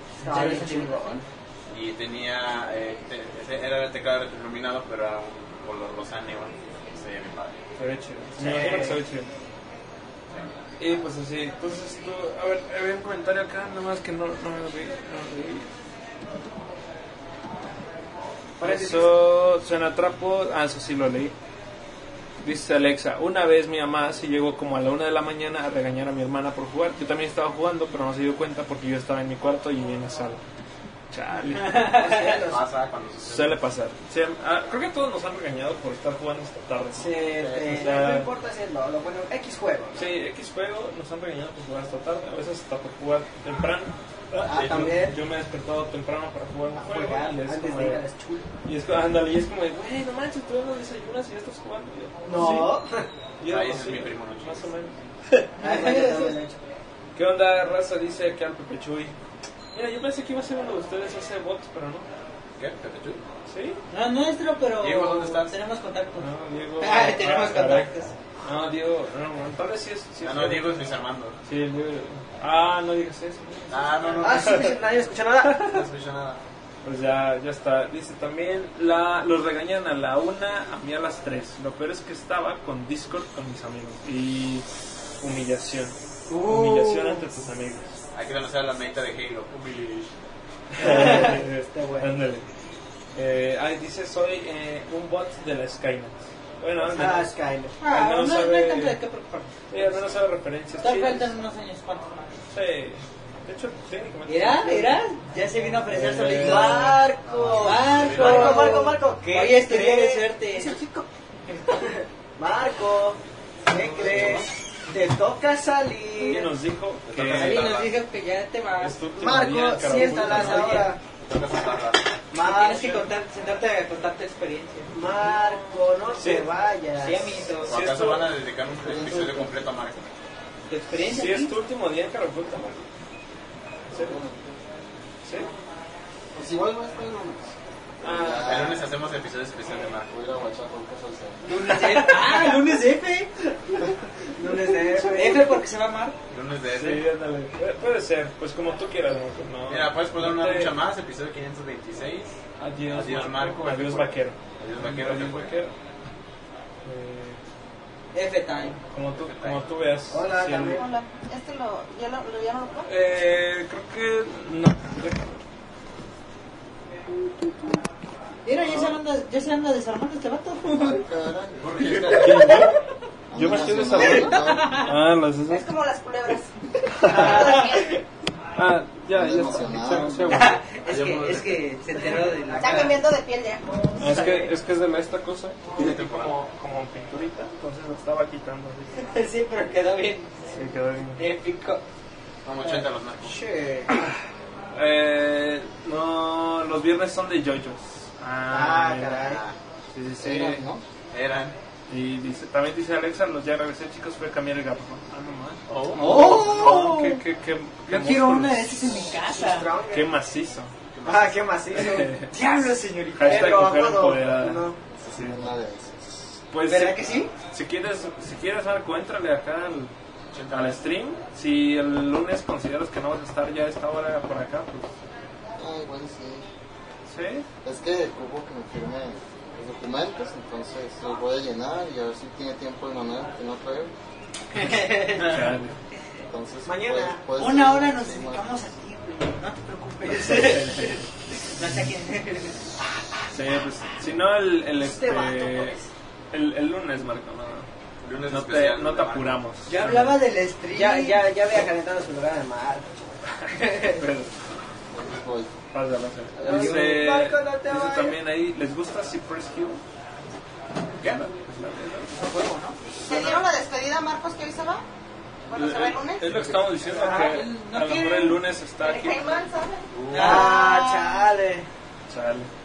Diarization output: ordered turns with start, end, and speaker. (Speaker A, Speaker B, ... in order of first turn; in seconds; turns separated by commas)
Speaker A: 0.2-1.0, Speaker B: 0.2-1.1, Speaker C: 0.4-7.6, Speaker D: 7.8-9.3, Speaker B: 8.4-9.0, Speaker D: 10.8-15.7, Speaker B: 18.6-19.2, Speaker D: 18.6-21.3, Speaker D: 22.4-30.4, Speaker D: 31.1-31.9, Speaker A: 31.6-32.4, Speaker B: 31.8-32.6, Speaker C: 32.4-33.6, Speaker D: 33.2-38.3, Speaker B: 37.0-40.0, Speaker C: 37.3-37.7, Speaker D: 39.9-48.0, Speaker B: 44.3-45.2, Speaker C: 44.5-45.0, Speaker B: 46.7-48.5, Speaker D: 48.6-52.8, Speaker B: 52.2-53.1, Speaker D: 53.4-55.4, Speaker C: 53.5-54.7, Speaker A: 55.6-56.4, Speaker B: 55.6-56.6, Speaker D: 57.1-59.1, Speaker D: 59.7-62.0, Speaker C: 62.6-63.2, Speaker D: 63.5-63.8, Speaker A: 63.9-66.2, Speaker C: 64.8-65.5, Speaker D: 66.2-70.7, Speaker A: 66.8-68.1, Speaker C: 70.2-71.3, Speaker D: 71.5-74.7, Speaker C: 73.7-74.7, Speaker B: 74.2-75.8, Speaker C: 75.5-76.4, Speaker D: 76.8-84.7, Speaker D: 85.2-87.9, Speaker B: 86.3-87.3, Speaker C: 88.1-90.1, Speaker D: 90.7-92.5, Speaker B: 90.8-92.1, Speaker D: 93.1-97.3, Speaker B: 96.8-97.7, Speaker A: 97.8-99.5, Speaker D: 97.8-99.0, Speaker D: 99.7-101.3, Speaker A: 100.8-102.2, Speaker D: 102.5-105.0, Speaker A: 104.3-107.0, Speaker D: 105.9-107.1, Speaker B: 106.3-111.1, Speaker A: 107.6-110.8, Speaker C: 107.9-108.7, Speaker B: 111.8-116.5, Speaker C: 113.8-114.5, Speaker D: 116.2-117.7, Speaker C: 117.0-117.9, Speaker A: 117.2-119.0, Speaker D: 118.8-120.9, Speaker B: 119.2-121.0, Speaker A: 119.8-120.9, Speaker C: 121.2-122.1, Speaker B: 122.3-123.0, Speaker A: 122.4-124.9, Speaker B: 124.9-127.5, Speaker D: 126.2-126.5, Speaker A: 127.0-128.2, Speaker C: 127.6-130.1, Speaker E: 128.8-129.6, Speaker A: 130.7-131.5, Speaker D: 131.0-132.8, Speaker E: 133.9-134.6, Speaker D: 133.9-134.2, Speaker D: 135.2-135.5, Speaker E: 136.3-137.4, Speaker E: 138.0-138.8, Speaker D: 138.0-138.8, Speaker C: 138.4-140.2, Speaker E: 140.1-141.4, Speaker A: 141.4-143.3, Speaker B: 142.2-142.4, Speaker B: 144.3-145.6, Speaker A: 145.0-146.1, Speaker C: 146.3-147.0, Speaker D: 146.7-150.7, Speaker C: 149.7-152.4, Speaker D: 152.6-155.7, Speaker C: 152.9-155.5, Speaker D: 156.8-157.4, Speaker A: 158.1-158.8, Speaker D: 158.9-160.8, Speaker C: 159.2-159.6, Speaker B: 160.1-160.8, Speaker F: 160.7-162.9, Speaker D: 162.8-165.2, Speaker A: 168.4-171.0, Speaker D: 168.6-168.9, Speaker E: 170.7-171.8, Speaker C: 171.6-172.7, Speaker D: 171.8-172.8, Speaker E: 173.3-174.9, Speaker D: 173.3-175.7, Speaker F: 174.0-174.3, Speaker F: 175.5-176.5, Speaker D: 176.9-177.8, Speaker F: 177.0-177.9, Speaker A: 177.1-177.6, Speaker D: 178.5-180.6, Speaker E: 179.1-180.6, Speaker A: 180.2-183.0, Speaker C: 180.8-181.7, Speaker F: 182.5-184.2, Speaker D: 184.0-189.0, Speaker A: 184.0-184.5, Speaker C: 185.7-186.3, Speaker A: 189.0-190.5, Speaker D: 190.5-191.2, Speaker A: 191.2-191.8, Speaker C: 192.4-193.4, Speaker B: 192.6-194.0, Speaker D: 193.9-194.2, Speaker D: 194.7-199.2, Speaker B: 198.5-199.4, Speaker C: 199.2-199.6, Speaker D: 199.9-200.6, Speaker E: 200.2-200.8, Speaker C: 201.1-201.5, Speaker D: 201.9-208.8, Speaker C: 205.7-206.2, Speaker A: 205.9-207.2, Speaker B: 206.0-206.4, Speaker A: 207.9-209.7, Speaker B: 209.3-210.1, Speaker D: 209.9-210.7, Speaker C: 210.9-211.5, Speaker B: 211.0-212.1, Speaker D: 211.7-212.3, Speaker A: 212.3-213.6, Speaker D: 213.2-215.4, Speaker B: 213.2-214.8, Speaker E: 215.0-216.3, Speaker D: 216.5-219.9, Speaker A: 216.7-217.3, Speaker C: 220.3-220.8, Speaker D: 220.5-224.9, Speaker E: 225.6-226.4, Speaker D: 227.1-227.5, Speaker E: 227.6-233.9, Speaker A: 234.5-235.5, Speaker D: 235.1-235.8, Speaker E: 236.3-238.5, Speaker B: 236.6-237.2, Speaker A: 237.4-241.0, Speaker D: 240.0-241.0, Speaker A: 241.5-242.5, Speaker D: 243.3-245.8, Speaker B: 244.8-245.9, Speaker D: 246.3-247.7, Speaker C: 248.0-249.4, Speaker D: 248.3-250.2, Speaker A: 249.7-251.3, Speaker B: 250.7-253.2, Speaker A: 253.6-254.0, Speaker D: 253.7-254.3, Speaker E: 254.9-255.5, Speaker D: 255.7-259.8, Speaker B: 256.4-258.2, Speaker D: 261.0-262.1, Speaker A: 262.1-262.8, Speaker F: 263.0-264.8, Speaker D: 263.1-263.4, Speaker F: 265.5-266.4, Speaker D: 265.5-269.4, Speaker B: 266.9-267.3, Speaker A: 267.0-268.4, Speaker F: 268.8-271.1, Speaker C: 269.9-270.5, Speaker A: 270.1-270.9, Speaker B: 270.1-271.6, Speaker D: 272.1-272.5